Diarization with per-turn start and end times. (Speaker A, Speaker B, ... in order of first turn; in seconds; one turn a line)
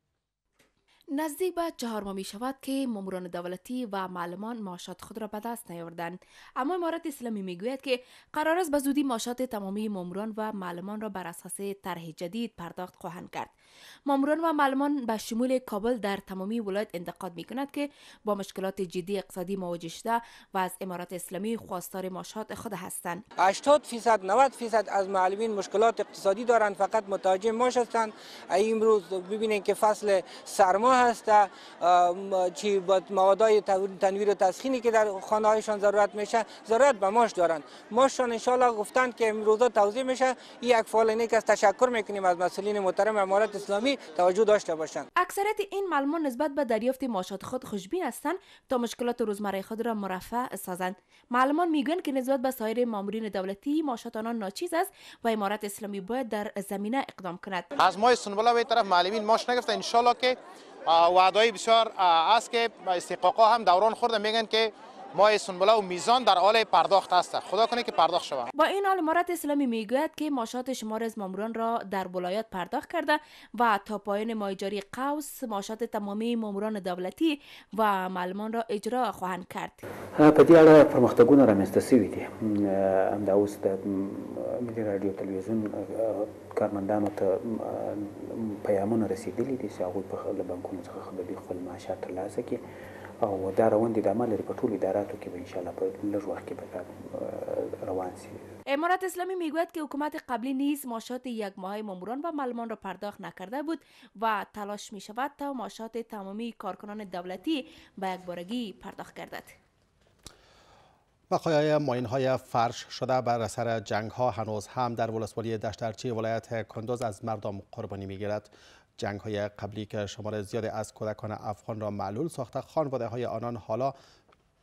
Speaker A: 1.1-13.5
Speaker A: 14.1-23.2
Speaker B: 23.4-45.0
Speaker A: 45.2-57.7
Speaker C: 57.9-60.3
Speaker C: 60.9-64.6
Speaker C: 65.2-68.3
Speaker A: 68.5-79.8
Speaker D: 80.2-92.6
Speaker D: 93.2-98.3
Speaker A: 98.7-109.5
Speaker E: 111.3-123.9